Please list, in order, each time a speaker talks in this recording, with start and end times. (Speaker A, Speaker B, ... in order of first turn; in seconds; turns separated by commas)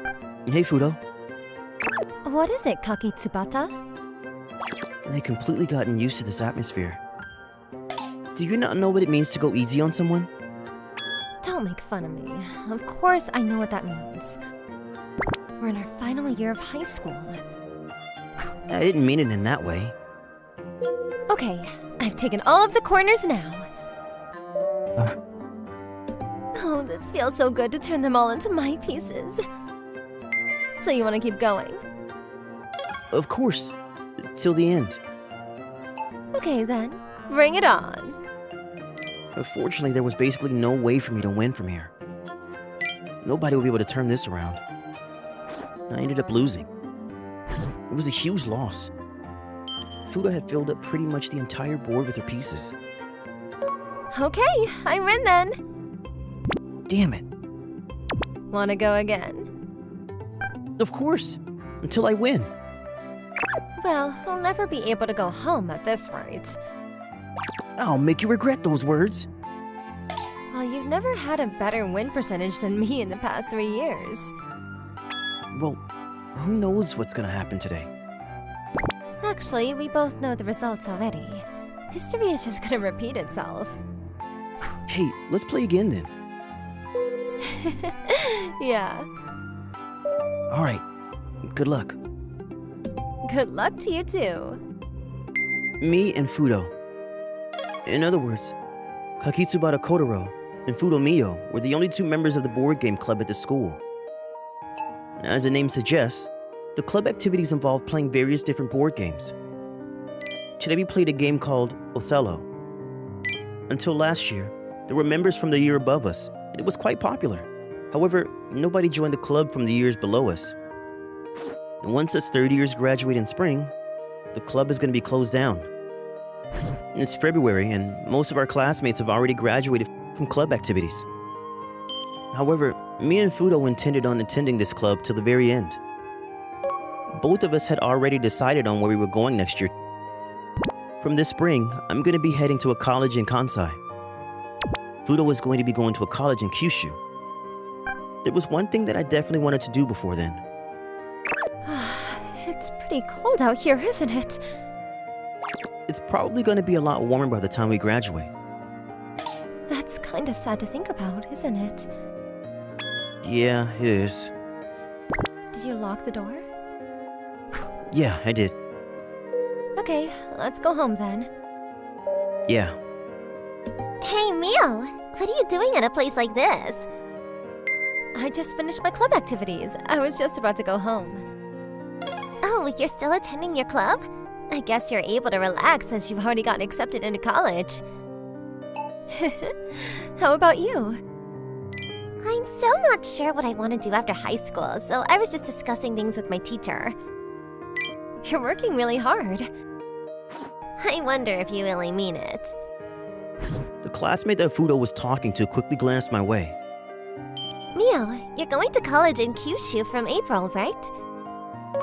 Speaker A: 0.5-1.0, Speaker B: 2.2-3.7, Speaker A: 5.1-7.0, Speaker A: 8.3-10.3, Speaker B: 11.4-14.4, Speaker B: 15.6-17.4, Speaker A: 18.7-19.9, Speaker B: 21.3-23.7, Speaker B: 26.6-29.4, Speaker B: 30.8-31.8, Speaker A: 33.1-33.8, Speaker A: 34.4-35.0, Speaker B: 36.3-38.2, Speaker A: 39.4-41.9, Speaker A: 43.2-44.6, Speaker A: 45.9-46.7, Speaker A: 47.9-48.9, Speaker A: 50.0-52.8, Speaker B: 54.1-55.6, Speaker A: 56.9-57.2, Speaker B: 58.5-59.5, Speaker A: 60.8-62.5, Speaker B: 63.8-66.6, Speaker A: 67.8-69.3, Speaker B: 70.5-74.3, Speaker A: 75.5-75.8, Speaker A: 76.3-77.9, Speaker B: 79.2-83.8, Speaker A: 84.9-86.1, Speaker B: 87.4-89.1, Speaker A: 90.5-90.8, Speaker A: 91.5-92.0, Speaker B: 93.2-94.6, Speaker A: 95.8-96.7, Speaker A: 97.9-98.6, Speaker A: 99.2-103.8, Speaker A: 105.2-109.3, Speaker A: 110.6-112.5, Speaker A: 113.7-120.6, Speaker A: 121.8-123.7, Speaker A: 124.3-125.7, Speaker A: 126.9-131.1, Speaker A: 132.3-135.8, Speaker A: 137.2-139.7, Speaker A: 141.0-143.8, Speaker A: 145.1-147.0, Speaker A: 148.2-150.4, Speaker B: 151.7-154.4, Speaker A: 155.9-158.3, Speaker B: 159.7-161.9, Speaker A: 163.2-164.3, Speaker B: 165.5-166.4, Speaker A: 167.9-168.6, Speaker B: 169.8-171.3, Speaker A: 172.5-172.8, Speaker B: 174.0-176.9, Speaker B: 178.2-181.2, Speaker B: 182.4-187.8, Speaker B: 189.1-191.0, Speaker B: 192.2-197.0, Speaker B: 198.2-199.5, Speaker B: 200.8-202.6, Speaker A: 203.8-206.6, Speaker B: 207.8-210.9